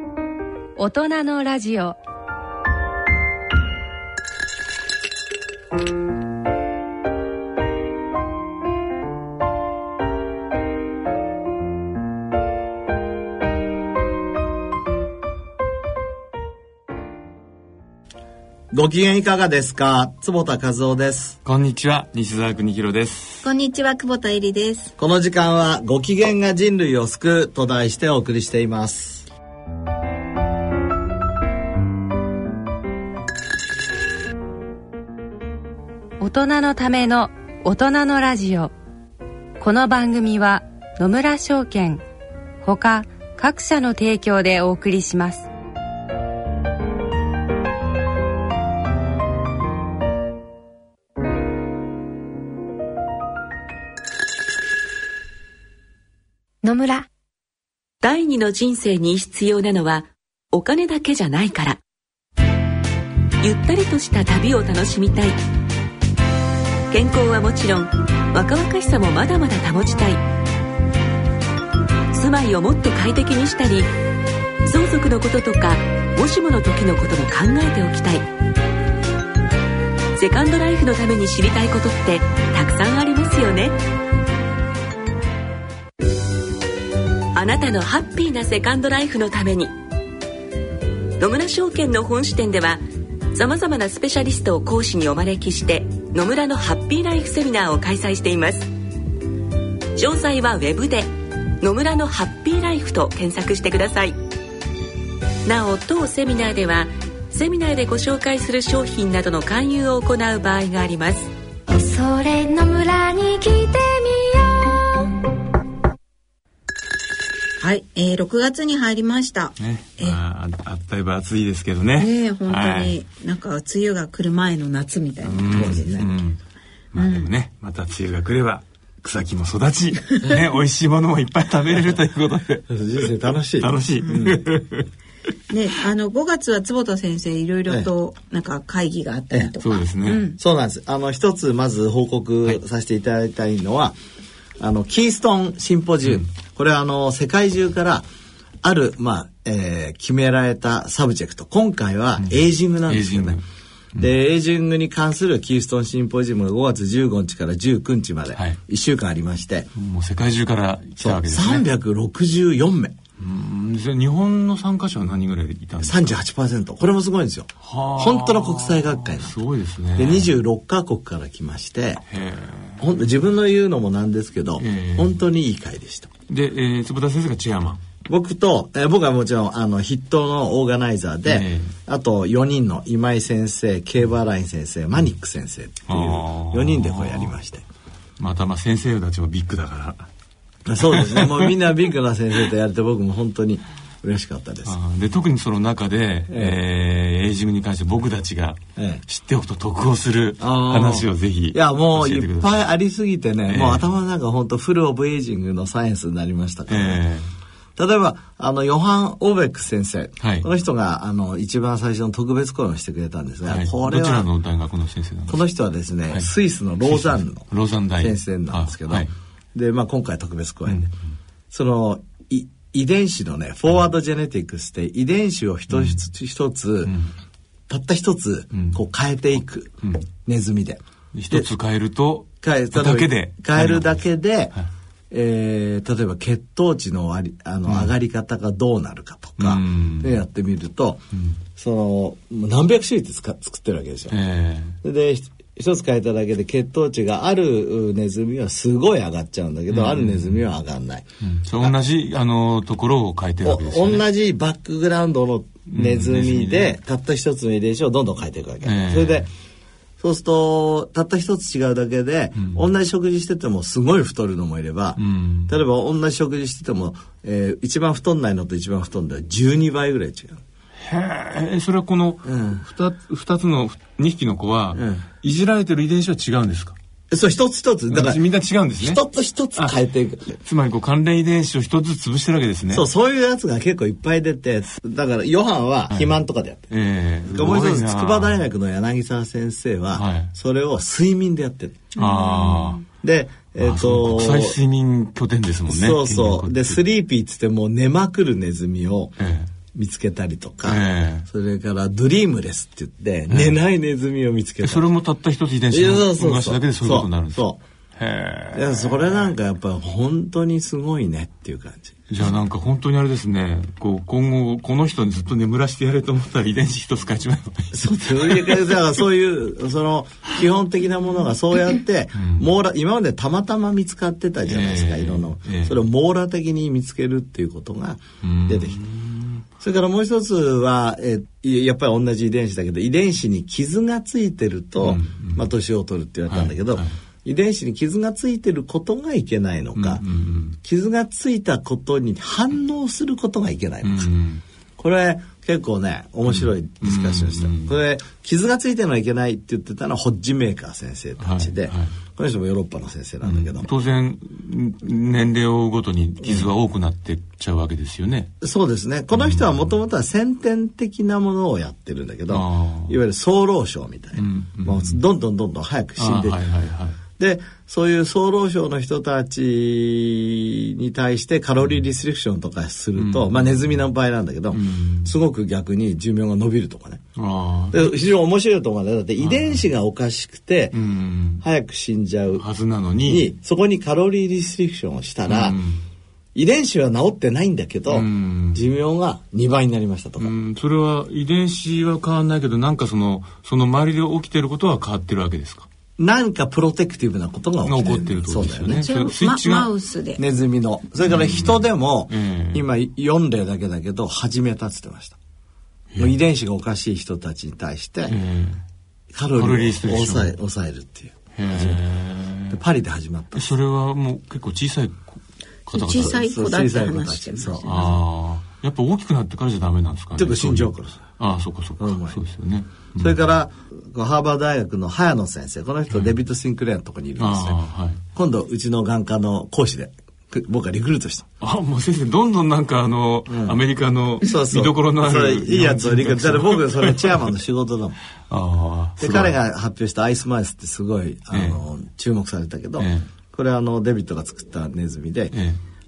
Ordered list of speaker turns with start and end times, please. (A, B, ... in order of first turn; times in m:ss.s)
0:00.8-0:02.0 A
0:18.7-0:21.4 B
0:21.4-0:23.4 C
0:23.4-0:24.9 D
0:25.0-0:29.3 B
0:36.2-0:38.7 A
0:39.6-0:42.0 A
0:42.6-0:45.5 A
0:56.6-0:57.0 E
0:58.0-1:01.8 F
1:03.4-1:05.4 F
1:06.9-1:10.2 F
1:12.1-1:13.9 F
1:14.6-1:18.3 F
1:20.2-1:23.8 F
1:27.3-1:29.7 F
1:31.2-1:38.7 F
1:40.0-1:41.1 F
1:41.6-1:44.2 F
1:45.4-1:51.3 F
1:51.7-1:55.2 E
1:57.6-2:00.2 D
1:59.6-2:03.0 C
2:02.0-2:05.7 D
2:05.2-2:06.4 C
2:05.5-2:06.1 B
2:06.9-2:12.8 C
2:06.9-2:07.3 D
2:12.7-2:14.4 B
2:13.6-2:14.9 C
2:15.5-2:20.4 D
2:19.6-2:20.3 C
2:20.3-2:24.0 B
2:24.6-2:28.0 B
2:28.6-2:33.4 B
2:32.2-2:33.4 C
2:34.0-2:39.7 B
2:39.8-2:41.6 C
2:41.0-2:43.0 B
2:43.2-2:46.2 C
2:45.8-2:49.4 B
2:47.6-2:50.3 C
2:50.0-2:52.0 B
2:52.1-2:52.9 C
2:52.8-2:56.1 B
2:54.6-2:55.2 C
2:56.3-2:57.8 C
2:58.1-3:07.6 B
3:01.2-3:01.7 C
3:05.9-3:07.3 C
3:08.2-3:10.1 C
3:10.6-3:14.8 B
3:10.8-3:11.5 C
3:14.6-3:22.6 C
3:16.3-3:16.6 B
3:18.8-3:19.0 B
3:20.4-3:27.0 B
3:23.5-3:23.8 C
3:26.7-3:27.3 C
3:27.8-3:34.3 B
3:30.2-3:30.5 C
3:33.4-3:35.4 C
3:35.3-3:37.5 B
3:36.8-3:39.1 C
3:38.0-3:40.9 B
3:41.5-3:47.0 B
3:45.7-3:46.0 C
3:46.8-3:47.1 C
3:47.7-3:51.5 B
3:48.5-3:48.8 C
3:51.1-3:54.0 C
3:52.4-3:54.5 B
3:55.1-4:01.0 B
3:57.7-3:57.9 C
3:59.4-4:00.2 C
4:01.6-4:04.2 B
4:04.1-4:04.8 C
4:04.8-4:11.0 B
4:09.7-4:10.4 C
4:11.2-4:14.0 C
4:13.4-4:19.3 B
4:15.7-4:16.7 C
4:18.6-4:19.3 C
4:20.0-4:30.4 B
4:25.0-4:25.5 C
4:30.8-4:36.8 C
4:32.2-4:32.6 B
4:34.7-4:35.0 B
4:37.1-4:38.2 B
4:37.9-4:39.0 C
4:38.8-4:40.4 B
4:40.4-4:42.8 C
4:42.7-4:46.7 B
4:45.9-4:46.2 C
4:46.7-4:48.4 C
4:47.3-4:51.9 B
4:49.9-4:50.3 C
4:52.0-4:52.8 C
4:52.0-4:52.8 D
4:53.0-4:54.6 B
4:53.6-4:56.8 C
4:55.7-4:59.1 B
4:59.2-4:59.5 C
4:59.7-5:04.9 B
5:00.6-5:01.3 C
5:03.3-5:03.6 C
5:04.6-5:09.3 C
5:05.7-5:07.6 B
5:08.5-5:12.0 B
5:12.1-5:18.7 C
5:17.7-5:28.8 B
5:22.2-5:22.5 C
5:24.4-5:25.8 C
5:28.2-5:29.4 C
5:29.6-5:40.0 B
5:34.8-5:35.4 C
5:36.3-5:37.0 C
5:39.8-5:40.6 C
5:40.6-5:44.1 B
5:43.8-5:44.4 C
5:44.8-5:53.7 B
5:46.3-5:47.7 C
5:51.2-5:51.9 C
5:53.2-5:58.3 C
5:58.4-6:06.4 B
5:59.1-5:59.6 C
6:02.3-6:03.0 C
6:04.2-6:05.0 C
6:06.0-6:07.0 C
6:07.2-6:17.0 B
6:13.0-6:13.8 C
6:14.5-6:15.1 C
6:17.2-6:17.9 C
6:17.7-6:20.8 B
6:19.2-6:19.6 C
6:20.7-6:21.4 C
6:21.4-6:22.4 B
6:22.4-6:23.3 C
6:23.0-6:25.6 B
6:25.3-6:25.8 C
6:26.3-6:30.3 B
6:27.9-6:28.6 C
6:30.2-6:35.7 C
6:36.0-6:38.9 B
6:37.6-6:39.7 C
6:38.8-6:40.2 D
6:40.2-6:45.2 B
6:41.0-6:42.6 C
6:46.0-6:48.2 B
6:48.1-6:48.6 C
6:49.1-6:51.8 B
6:49.4-6:50.3 C
6:51.4-6:52.6 C
6:52.5-6:53.5 B
6:53.3-6:56.2 C
6:55.7-6:57.9 D
6:55.9-6:57.9 B
6:57.6-7:03.2 C
7:00.2-7:01.0 B
7:01.8-7:02.2 B
7:03.0-7:07.6 B
7:07.2-7:08.0 C
7:08.1-7:11.3 B
7:11.4-7:17.3 C
7:13.3-7:13.6 B
7:14.2-7:18.0 B
7:18.3-7:19.4 C
7:19.0-7:25.3 B
7:21.3-7:21.6 C
7:22.8-7:23.1 C
7:25.3-7:25.6 C